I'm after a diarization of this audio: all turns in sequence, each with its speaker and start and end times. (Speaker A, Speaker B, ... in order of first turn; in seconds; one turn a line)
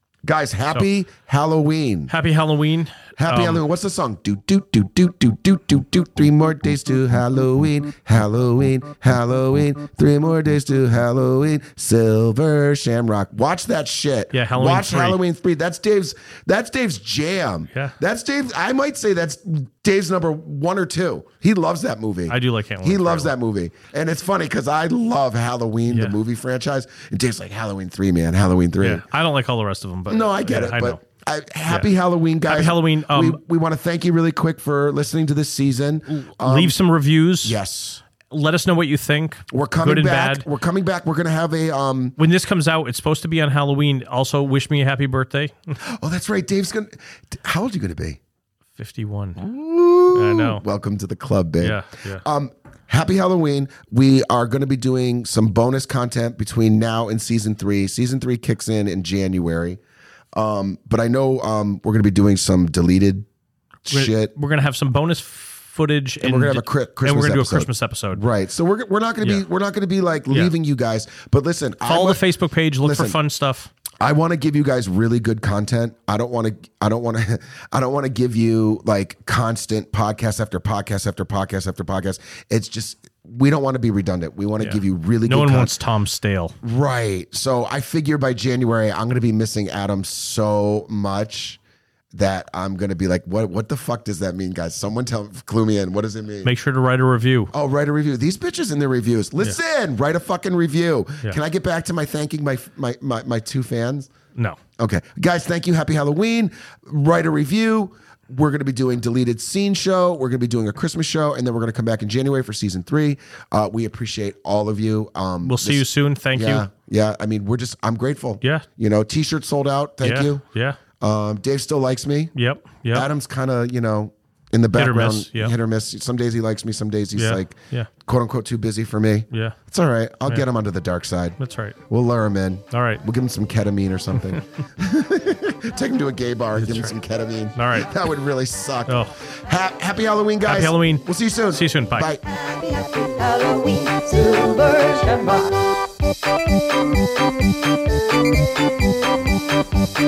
Speaker A: 0.2-2.1
Speaker B: 2.1-3.6
Speaker A: 3.2-29.1
Speaker B: 14.3-15.2
Speaker B: 22.3-23.3
Speaker B: 25.9-26.2
Speaker B: 28.8-31.0
Speaker A: 30.1-36.8
Speaker B: 32.5-33.4
Speaker B: 36.1-37.6
Speaker A: 37.4-38.0
Speaker B: 38.3-40.5
Speaker A: 39.5-42.2
Speaker B: 42.2-45.8
Speaker A: 45.8-48.2
Speaker B: 48.8-49.4
Speaker A: 49.4-59.8
Speaker B: 50.1-50.6
Speaker B: 51.6-52.2
Speaker A: 60.3-63.3
Speaker A: 63.9-64.3
Speaker B: 63.9-68.2
Speaker A: 66.2-72.2
Speaker B: 71.8-73.7
Speaker A: 72.8-73.2
Speaker A: 74.0-85.8
Speaker B: 84.6-86.6
Speaker A: 86.6-91.6
Speaker A: 92.1-96.5
Speaker B: 96.4-97.5
Speaker A: 97.5-104.1
Speaker A: 104.8-120.4
Speaker B: 115.4-116.7
Speaker B: 120.0-120.8
Speaker A: 121.0-122.3
Speaker B: 122.3-123.1
Speaker A: 122.9-131.4
Speaker B: 124.8-125.5
Speaker B: 127.1-127.9
Speaker B: 129.3-129.6
Speaker B: 131.4-131.8
Speaker A: 131.9-142.2
Speaker B: 132.7-133.0
Speaker B: 136.6-136.9
Speaker B: 137.6-137.9
Speaker B: 138.9-139.1
Speaker B: 140.5-142.1
Speaker C: 142.2-145.7